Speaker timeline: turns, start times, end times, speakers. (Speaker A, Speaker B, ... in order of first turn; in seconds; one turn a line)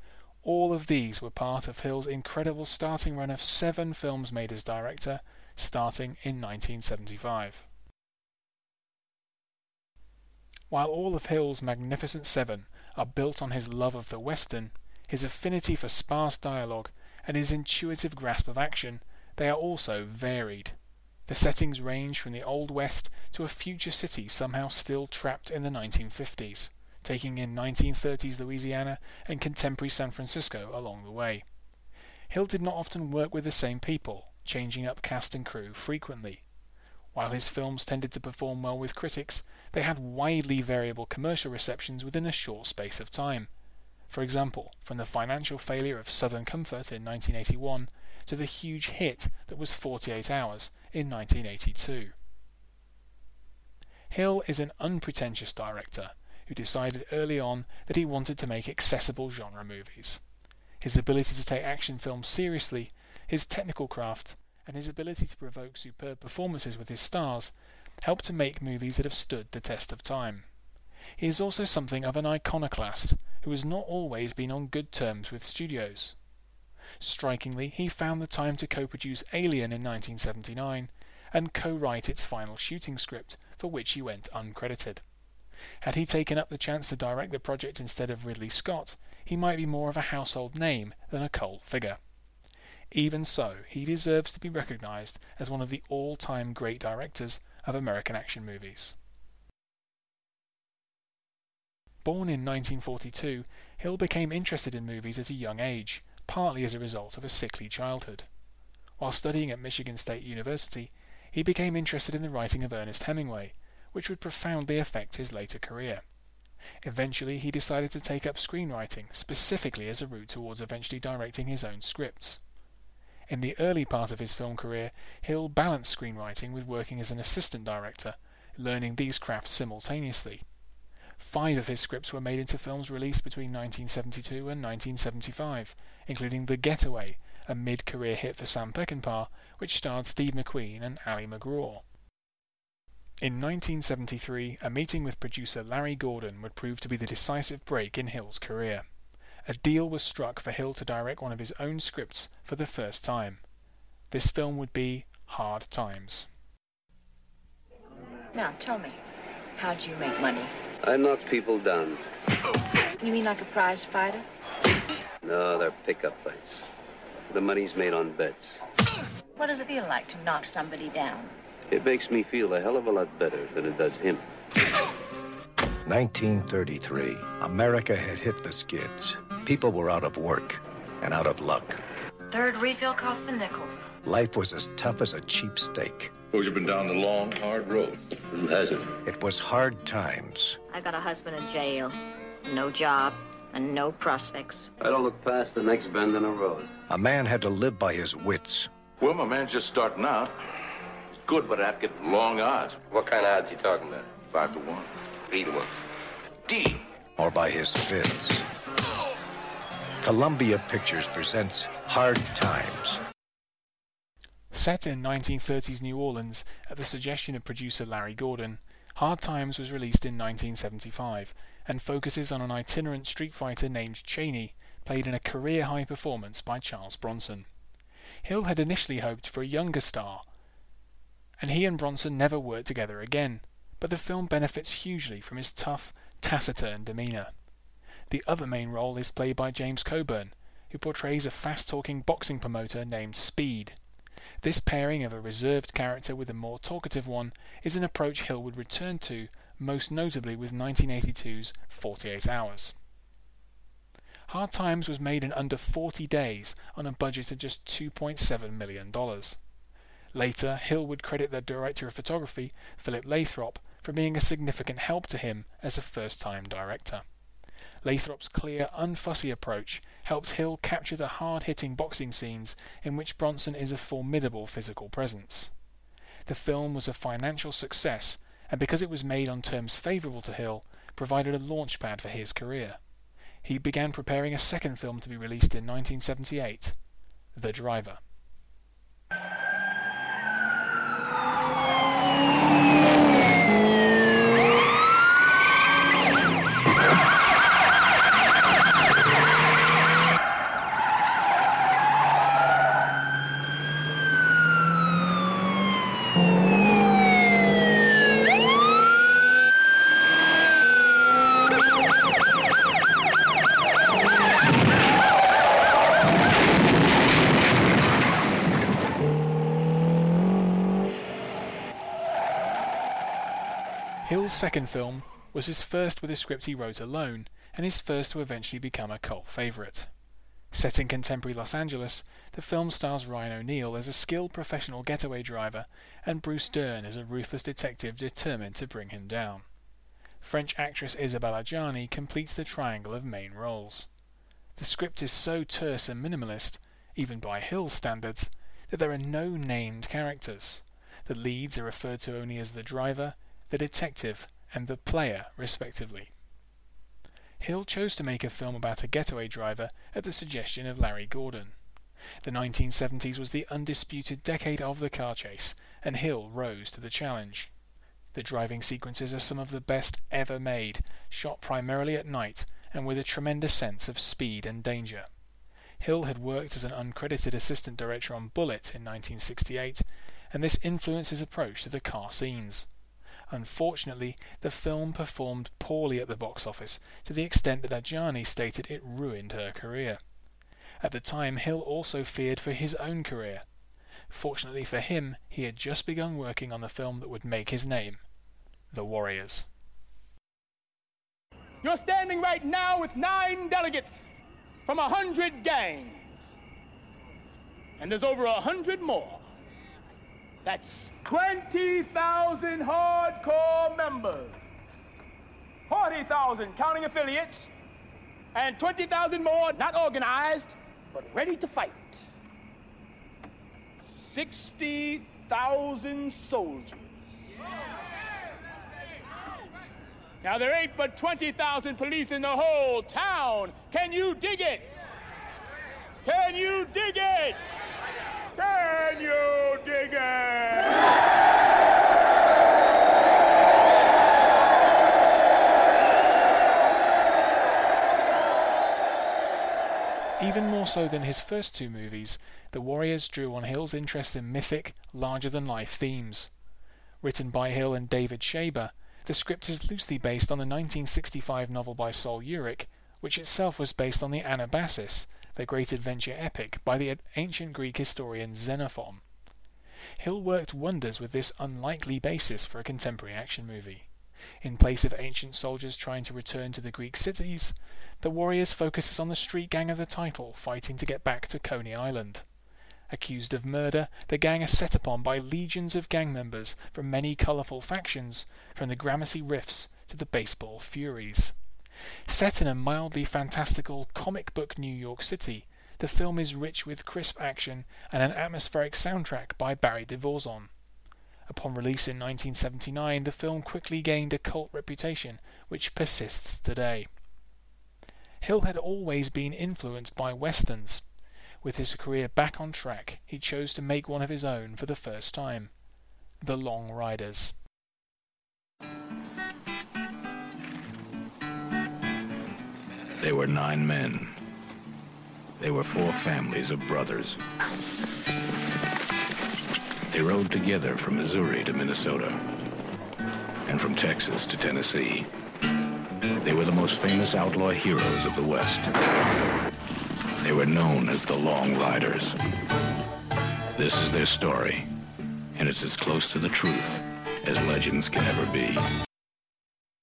Speaker A: 0.4-7.7
Speaker A: 10.7-20.8
Speaker A: 21.3-31.4
Speaker A: 32.3-36.4
Speaker A: 37.1-43.5
Speaker A: 44.1-52.1
Speaker A: 54.1-60.2
Speaker A: 60.8-70.5
Speaker A: 71.2-76.2
Speaker A: 77.0-85.0
Speaker A: 85.8-92.0
Speaker A: 92.9-99.0
Speaker A: 102.0-108.3
Speaker A: 109.0-116.0
Speaker A: 116.8-122.4
Speaker A: 123.3-130.4
Speaker A: 131.2-141.8
Speaker A: 143.2-148.8
Speaker A: 149.5-153.4
Speaker A: 154.1-156.3
Speaker B: 158.3-159.0
Speaker B: 159.6-160.5
Speaker C: 160.8-162.0
Speaker B: 163.0-164.3
Speaker C: 165.2-166.7
Speaker C: 167.3-168.6
Speaker B: 169.4-171.3
Speaker C: 171.7-174.2
Speaker D: 175.9-181.8
Speaker E: 182.3-183.7
Speaker D: 184.1-186.1
Speaker F: 186.3-188.0
Speaker D: 189.1-190.6
Speaker E: 190.7-194.7
Speaker C: 194.8-196.7
Speaker D: 196.9-198.7
Speaker F: 199.0-200.3
Speaker F: 201.3-202.8
Speaker F: 204.3-204.9
Speaker F: 206.5-206.8
Speaker D: 207.2-208.4
Speaker D: 210.0-213.0
Speaker A: 214.5-227.5
Speaker A: 228.2-230.3
Speaker A: 231.4-237.3
Speaker A: 238.1-243.8
Speaker A: 244.4-252.8
Speaker A: 254.3-259.4
Speaker A: 260.1-267.0
Speaker A: 267.8-275.5
Speaker A: 276.3-282.8
Speaker A: 283.4-286.8
Speaker A: 287.3-288.0
Speaker A: 324.0-329.9
Speaker A: 330.5-339.4
Speaker A: 340.2-343.9
Speaker A: 344.6-356.1
Speaker A: 357.4-361.6
Speaker A: 362.2-367.5
Speaker A: 368.1-375.1
Speaker A: 375.8-382.7
Speaker A: 383.3-390.0
Speaker A: 390.8-393.4
Speaker A: 394.1-398.0
Speaker A: 398.7-399.5
Speaker G: 401.6-404.1
Speaker G: 404.7-406.3
Speaker G: 407.8-409.2
Speaker G: 410.4-414.4
Speaker G: 415.7-417.5
Speaker G: 418.4-422.0
Speaker G: 423.9-426.8
Speaker G: 430.2-434.6
Speaker G: 436.1-437.4
Speaker G: 438.4-440.7
Speaker A: 450.2-456.3
Speaker A: 457.0-469.0
Speaker A: 470.0-473.9
Speaker A: 474.4-482.2
Speaker A: 482.9-491.4
Speaker A: 492.1-500.5
Speaker A: 501.3-506.9
Speaker A: 508.2-510.8
Speaker A: 511.4-515.5
Speaker A: 516.2-517.4
Speaker H: 523.0-524.1
Speaker H: 525.4-527.2
Speaker H: 529.9-532.2
Speaker H: 533.5-535.1
Speaker H: 536.2-538.7
Speaker H: 540.2-542.1
Speaker H: 543.6-544.7
Speaker H: 545.4-548.6